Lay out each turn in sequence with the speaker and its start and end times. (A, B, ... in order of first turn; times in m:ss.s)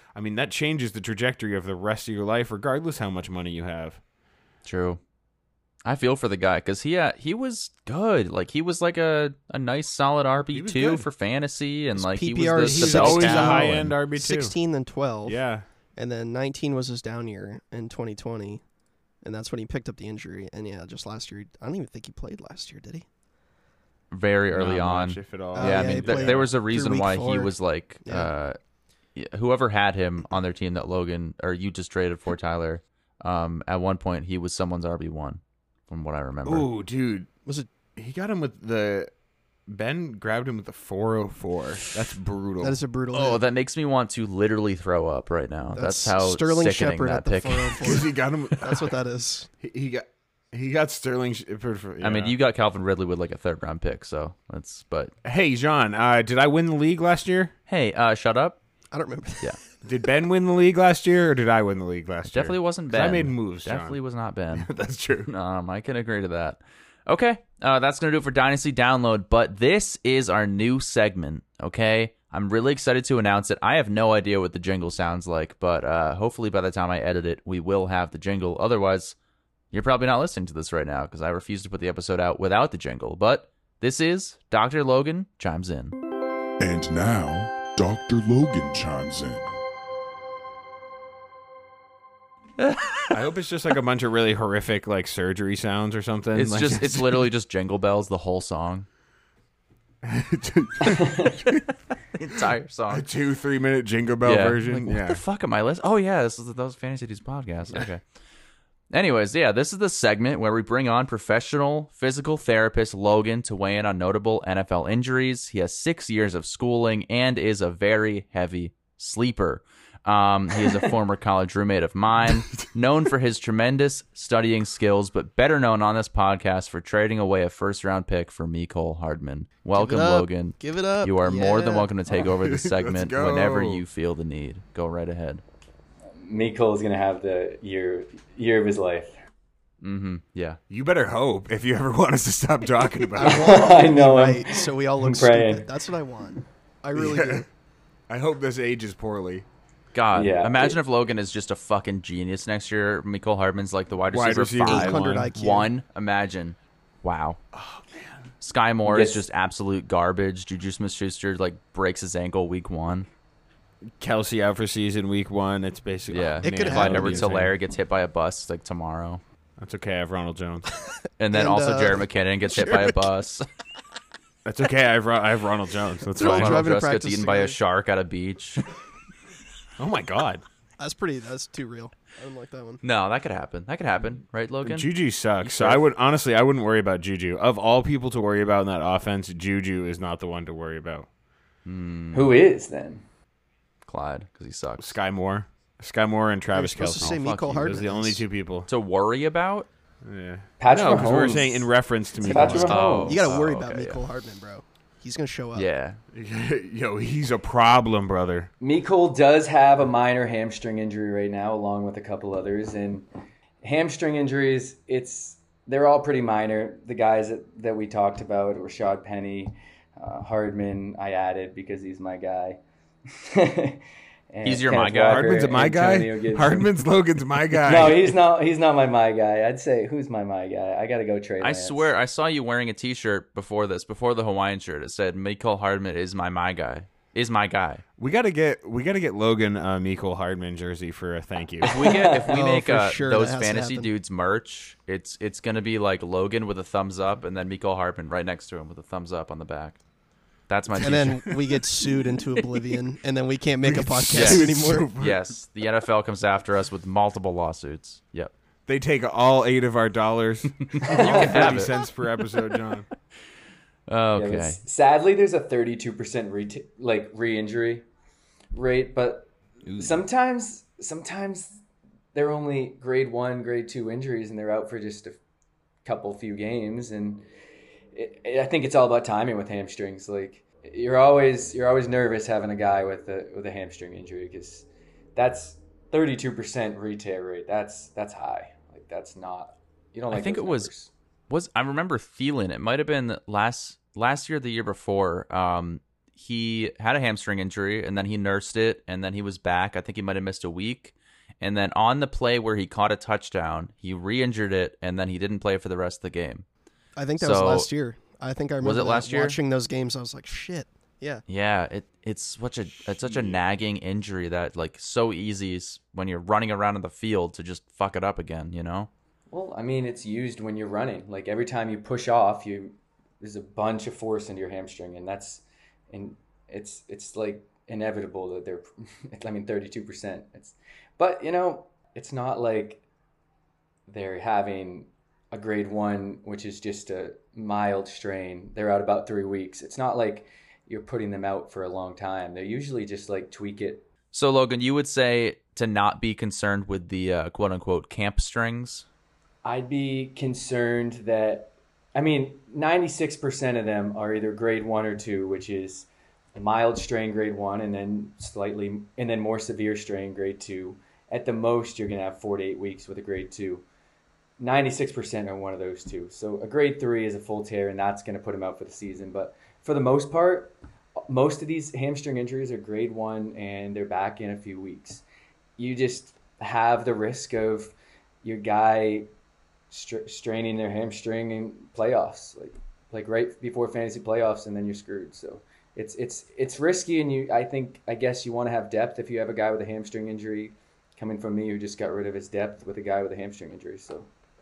0:00.1-0:04.0 A
0:04.6-0:05.0 B
0:05.8-0:13.7 B
0:10.5-0:11.1 A
0:11.9-0:15.4 C
0:12.6-0:14.5 A
0:15.2-0:15.6 A
0:16.0-0:18.6 C
0:19.2-0:23.0 C
0:24.1-0:28.6 B
0:24.5-0:26.5 A
0:25.5-0:28.3 C
0:29.2-0:36.7 B
0:36.4-0:37.3 A
0:37.9-0:39.1 A
0:39.7-0:42.8 A
0:42.6-0:43.4 C
0:43.1-0:47.8 B
0:45.7-0:49.5 C
0:47.8-0:48.9 A
0:49.6-0:52.4 A
0:52.0-0:55.1 B
0:55.2-0:57.5 A
0:57.7-0:58.6 B
0:58.9-0:59.6 C
0:59.8-1:04.0 A
1:02.3-1:04.7 B
1:04.5-1:05.3 A
1:05.3-1:19.2 B
1:19.7-1:26.0 B
1:26.6-1:29.5 D
1:32.6-1:33.1 B
1:33.1-1:37.3 A
1:36.3-1:38.9 B
1:40.0-1:41.6 A
1:42.1-1:43.0 B
1:42.9-1:45.2 A
1:44.2-1:48.0 B
1:48.9-2:15.4 B
2:09.7-2:11.9 C
2:12.2-2:13.8 A
2:16.2-2:19.1 E
2:19.8-2:20.6 B
2:20.7-2:23.4 A
2:23.2-2:27.5 C
2:23.2-2:25.7 E
2:27.0-2:27.4 A
2:28.1-2:29.4 A
2:29.9-2:37.4 B
2:30.1-2:30.8 E
2:34.1-2:35.3 A
2:34.6-2:35.7 C
2:37.5-2:38.3 A
2:38.4-2:43.1 B
2:38.8-2:39.2 E
2:44.0-2:47.5 A
2:46.1-2:49.2 B
2:46.4-2:47.3 C
2:49.6-2:50.7 A
2:51.2-2:53.4 B
2:51.3-2:53.1 C
2:54.4-2:56.7 A
2:56.1-2:57.6 C
2:56.2-2:58.7 B
2:59.8-3:00.4 A
3:00.8-3:02.8 C
3:02.8-3:04.9 B
3:04.6-3:11.1 A
3:05.4-3:05.9 B
3:11.6-3:12.4 B
3:12.1-3:13.0 E
3:13.8-3:15.0 B
3:14.8-3:18.7 A
3:16.5-3:18.2 C
3:17.0-3:17.7 B
3:18.7-3:19.7 B
3:20.0-3:23.0 A
3:20.6-3:23.2 E
3:22.2-3:25.7 C
3:22.4-3:24.0 B
3:25.5-3:26.0 B
3:26.1-3:28.5 A
3:28.6-3:33.0 E
3:33.6-3:42.6 E
3:43.2-3:46.7 E
3:44.4-3:45.3 B
3:45.1-3:48.1 A
3:47.5-3:51.9 E
3:51.4-3:57.8 B
3:58.0-4:01.7 A
4:01.6-4:09.8 B
4:01.8-4:02.3 E
4:02.2-4:03.9 C
4:10.5-4:11.6 B
4:10.7-4:14.9 C
4:13.6-4:15.2 A
4:14.1-4:18.3 B
4:18.7-4:22.9 A
4:20.7-4:21.7 B
4:20.8-4:21.7 E
4:23.9-4:24.6 B
4:24.2-4:27.8 E
4:28.5-4:31.6 E
4:32.1-4:35.2 E
4:35.8-4:37.2 E
4:37.9-4:50.9 E
4:50.1-4:50.7 B
4:51.3-5:06.4 B
5:07.0-5:11.2 C
5:07.2-5:07.7 B
5:08.6-5:09.4 B
5:11.3-5:18.9 B
5:13.0-5:13.4 A
5:19.3-5:32.8 E
5:33.9-5:43.9 E
5:44.1-5:48.8 B
5:49.4-6:03.6 E
6:04.4-6:10.5 E
6:11.1-6:15.0 E
6:15.6-6:19.1 E
6:19.7-6:34.1 E